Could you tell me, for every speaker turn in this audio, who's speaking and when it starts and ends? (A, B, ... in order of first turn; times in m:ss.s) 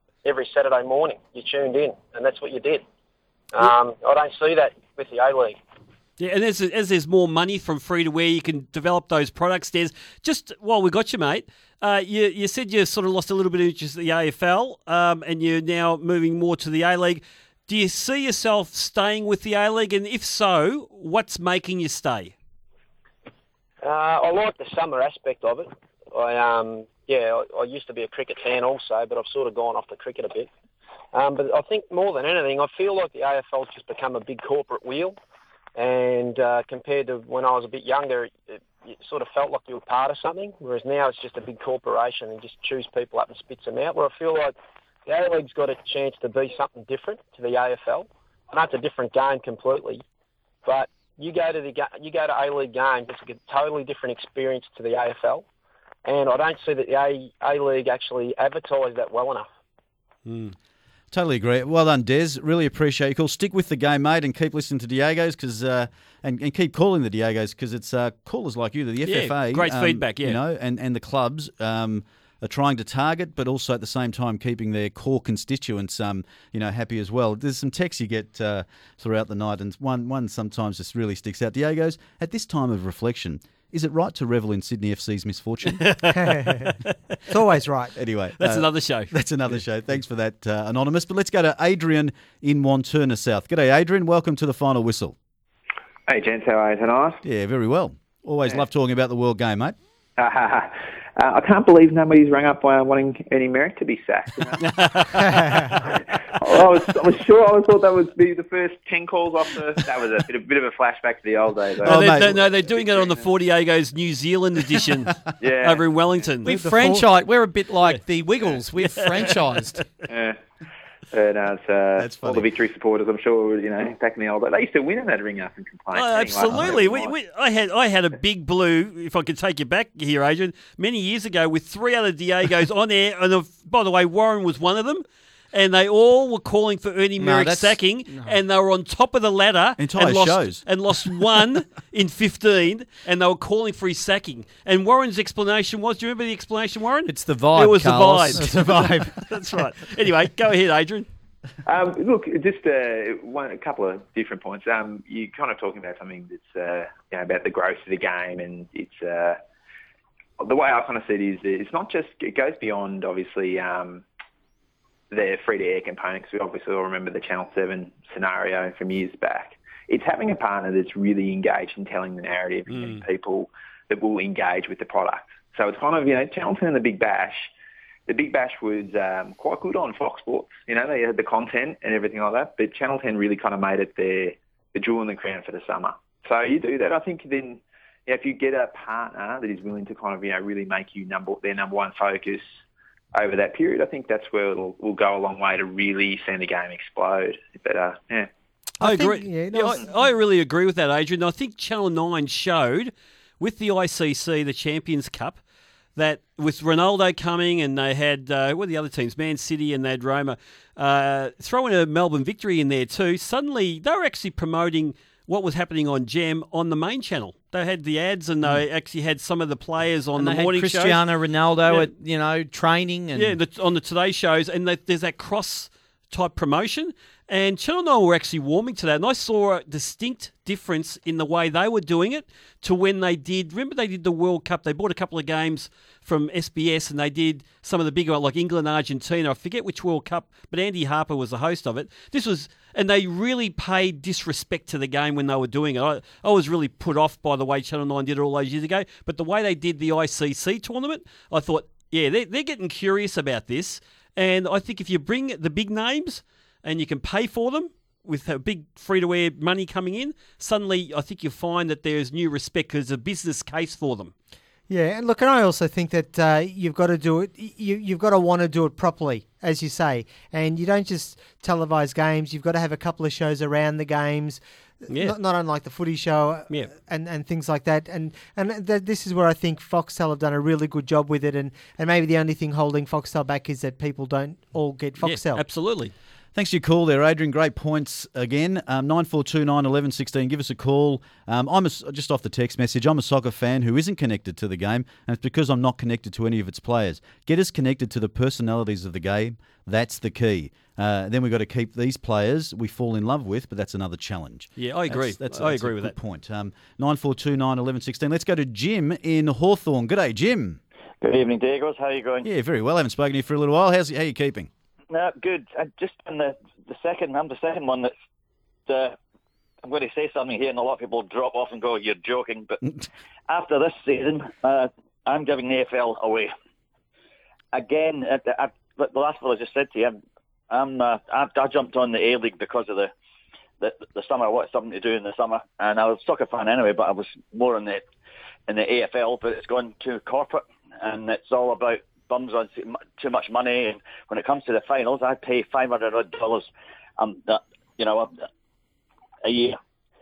0:00.2-0:02.8 A
0:03.5-0:05.6 A
0:06.2-0:22.3 B
0:23.8-0:30.5 A
0:31.1-0:35.2 A
0:35.8-0:44.5 A
0:45.0-0:50.0 A
0:50.6-0:55.4 A
0:56.0-0:59.5 A
1:00.2-1:00.6 B
1:01.1-1:25.8 C
1:09.0-1:10.4 B
1:25.8-1:26.7 B
1:26.2-1:26.6 D
1:27.3-1:27.9 D
1:28.0-1:35.2 C
1:28.4-1:29.1 B
1:36.1-1:37.2 E
1:37.2-1:39.8 C
1:40.2-1:44.7 E
1:44.7-1:45.8 B
1:45.2-1:45.7 D
1:45.7-1:53.3 E
1:51.8-1:52.3 C
1:51.8-1:56.5 B
1:55.4-1:56.2 E
1:56.4-1:59.8 F
1:56.5-1:57.0 D
1:58.8-1:59.4 B
2:00.0-2:00.4 E
2:01.1-2:07.1 E
2:02.0-2:02.4 C
2:05.9-2:31.1 B
2:17.2-2:18.4 F
2:19.8-2:20.6 C
2:27.1-2:28.6 F
2:28.4-2:29.2 D
2:31.6-2:39.4 E
2:40.4-2:44.0 E
2:45.1-2:57.5 E
2:52.7-2:53.0 B
2:58.1-3:12.4 E
3:13.1-3:18.3 E
3:18.8-3:20.0 D
3:18.8-3:25.4 B
3:26.0-3:41.0 B
3:40.2-3:43.4 F
3:41.7-3:41.9 B
3:43.1-4:24.1 B
4:24.7-4:45.4 D
4:34.9-4:35.2 B
4:45.0-4:45.9 B
4:46.3-5:10.6 C
5:04.6-5:05.9 B
5:11.0-5:12.3 G
5:12.2-5:14.5 C
5:14.9-5:17.9 G
5:18.7-5:19.0 G
5:19.6-5:22.6 G
5:23.3-5:26.3 G
5:27.5-5:30.0 G
5:30.5-5:32.9 G
5:33.6-5:37.8 G
5:38.5-5:46.5 G
5:47.0-5:48.1 G
5:49.2-5:49.6 G